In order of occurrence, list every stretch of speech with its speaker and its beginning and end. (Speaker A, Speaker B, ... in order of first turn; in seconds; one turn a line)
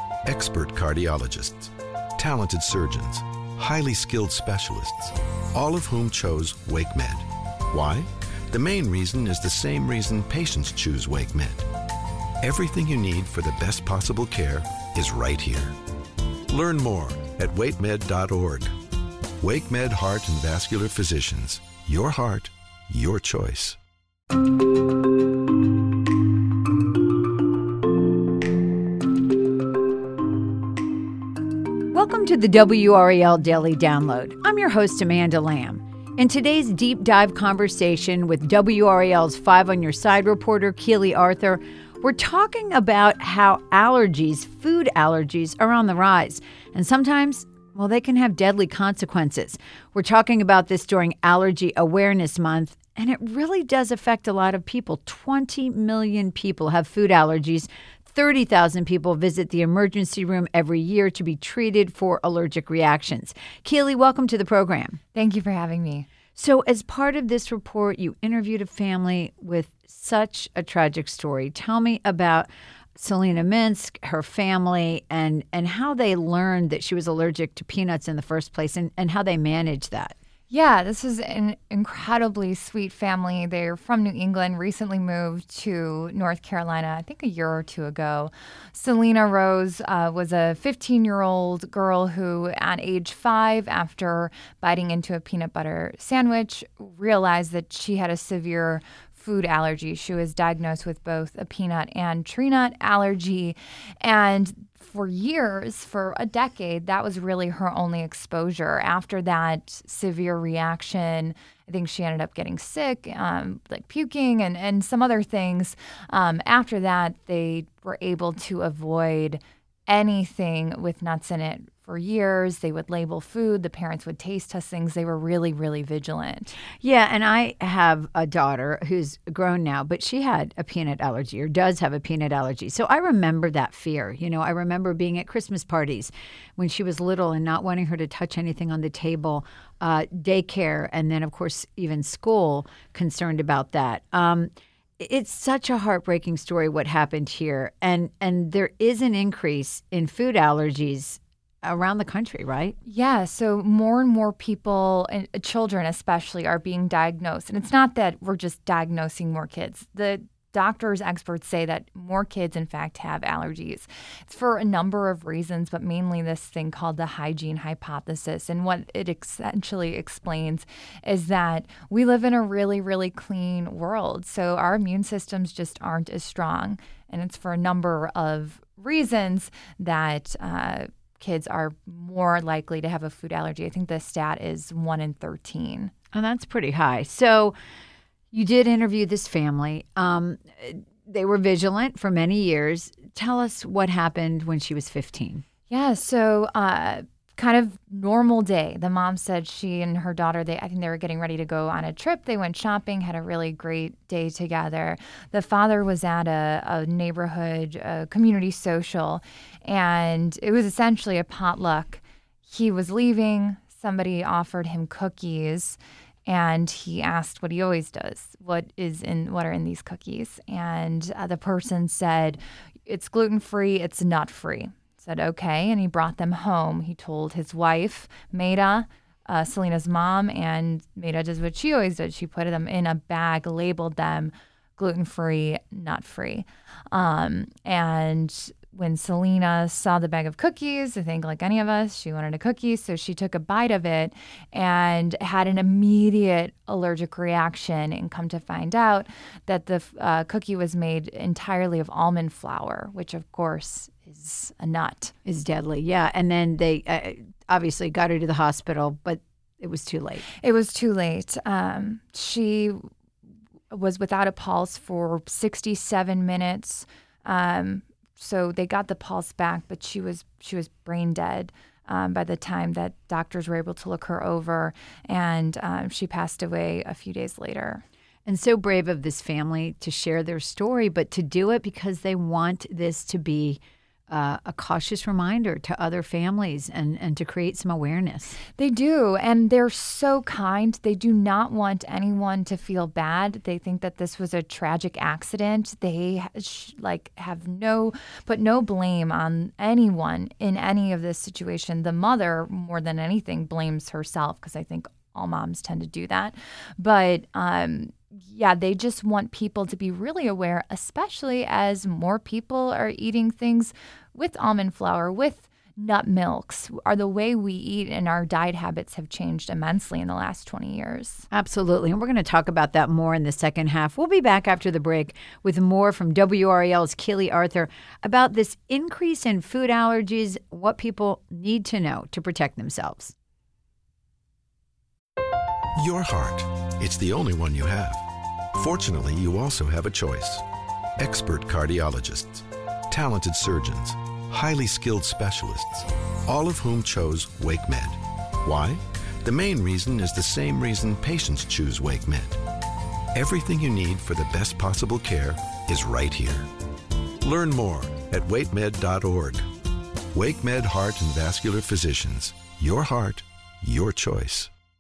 Speaker A: 0.3-11.7
Speaker A: 12.4-15.8
Speaker A: 16.5-18.7
Speaker A: 19.4-23.8
Speaker B: 31.9-65.0
Speaker C: 65.1-66.1
Speaker B: 66.3-80.1
Speaker C: 80.5-126.5
Speaker B: 126.8-152.8
Speaker C: 152.8-185.9
Speaker B: 186.1-187.5
Speaker B: 188.3-195.4
Speaker C: 195.7-255.1
Speaker B: 255.2-260.2
Speaker C: 260.4-262.9
Speaker C: 263.7-277.8
Speaker B: 278.2-288.4
Speaker C: 288.6-321.2
Speaker B: 321.3-333.1
Speaker A: 335.8-340.4
Speaker A: 341.0-352.4
Speaker A: 353.1-356.5
Speaker A: 357.2-359.4
Speaker A: 360.1-364.5